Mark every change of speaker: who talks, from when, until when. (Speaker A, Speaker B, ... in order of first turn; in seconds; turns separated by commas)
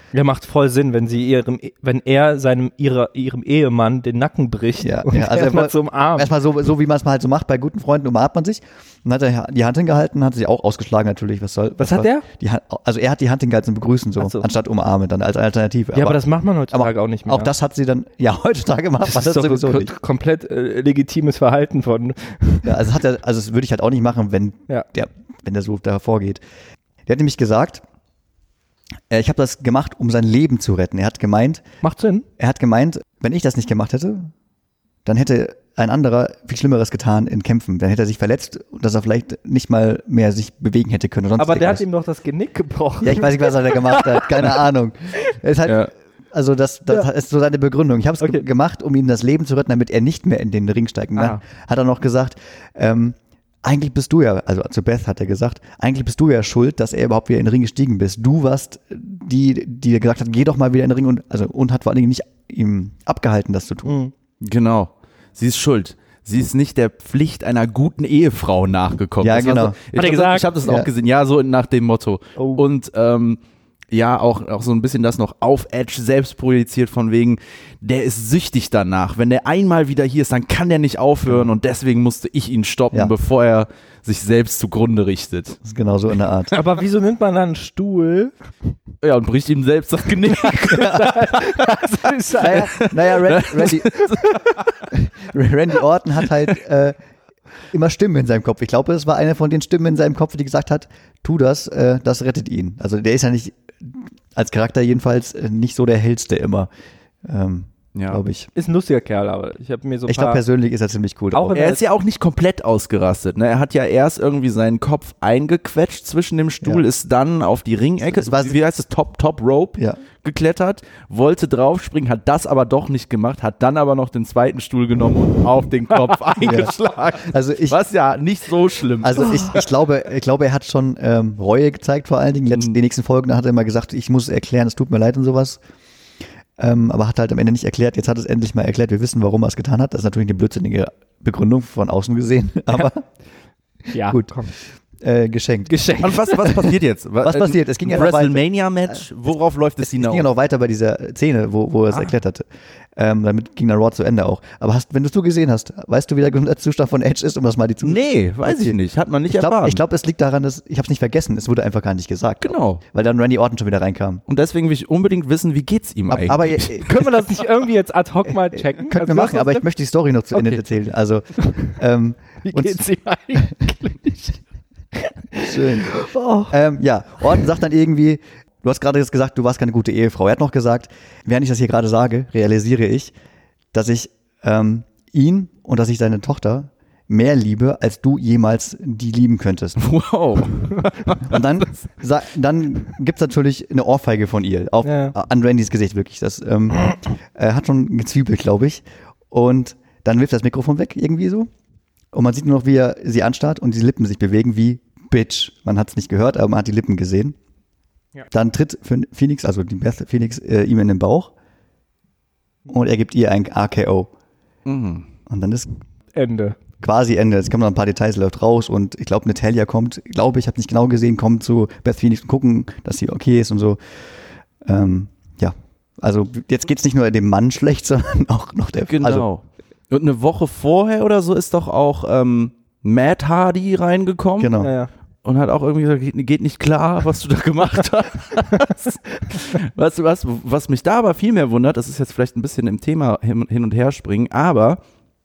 Speaker A: 0.1-6.3, Speaker B: 4.8-19.9, Speaker A: 11.8-12.2, Speaker A: 14.2-14.4, Speaker A: 15.9-17.5, Speaker A: 19.0-22.7, Speaker B: 22.6-26.4, Speaker B: 27.1-27.8, Speaker B: 29.1-31.6, Speaker A: 31.8-32.2, Speaker B: 32.4-34.3, Speaker B: 35.0-41.8, Speaker A: 41.4-44.6, Speaker B: 43.0-64.0, Speaker C: 45.6-45.9, Speaker A: 51.1-51.4, Speaker A: 63.9-64.1, Speaker C: 64.4-73.4, Speaker B: 69.2-69.8, Speaker A: 70.0-70.5, Speaker B: 70.6-70.9, Speaker A: 72.3-72.6, Speaker C: 73.9-85.6, Speaker B: 81.3-81.5, Speaker B: 85.6-86.5, Speaker A: 86.5-88.3, Speaker C: 89.0-94.7, Speaker A: 90.2-92.9, Speaker B: 90.7-91.1, Speaker B: 92.4-94.2, Speaker A: 94.2-94.5, Speaker B: 94.9-97.0, Speaker B: 97.7-106.7, Speaker B: 107.2-108.5, Speaker C: 107.9-108.2, Speaker A: 108.5-110.4, Speaker B: 110.1-111.5, Speaker A: 111.3-111.8, Speaker C: 111.5-129.7, Speaker B: 118.1-118.6, Speaker B: 126.4-127.8, Speaker B: 129.0-135.6, Speaker A: 129.2-129.5, Speaker C: 132.5-132.8, Speaker B: 136.6-143.0, Speaker A: 143.9-144.5, Speaker B: 144.0-144.3, Speaker B: 145.0-145.8, Speaker A: 145.7-146.5, Speaker C: 146.0-150.3, Speaker B: 147.2-148.4, Speaker B: 149.8-158.8, Speaker C: 157.8-159.8, Speaker B: 159.3-164.2, Speaker C: 162.4-162.8, Speaker C: 164.3-167.2, Speaker B: 166.1-166.9, Speaker A: 166.8-169.6, Speaker B: 168.6-172.8, Speaker A: 170.3-170.6, Speaker A: 171.3-171.8, Speaker A: 172.4-174.4, Speaker A: 174.9-176.5, Speaker B: 175.4-183.1, Speaker B: 183.7-189.8, Speaker C: 189.8-191.7, Speaker B: 191.2-201.5, Speaker A: 194.8-195.1, Speaker B: 202.1-207.3, Speaker B: 208.3-211.3, Speaker B: 212.7-214.1, Speaker C: 214.7-215.1, Speaker B: 215.3-215.7, Speaker A: 216.1-216.6, Speaker B: 216.8-223.8, Speaker B: 224.6-229.2, Speaker C: 228.9-234.6, Speaker B: 234.4-234.7, Speaker A: 234.6-234.9, Speaker C: 235.2-244.8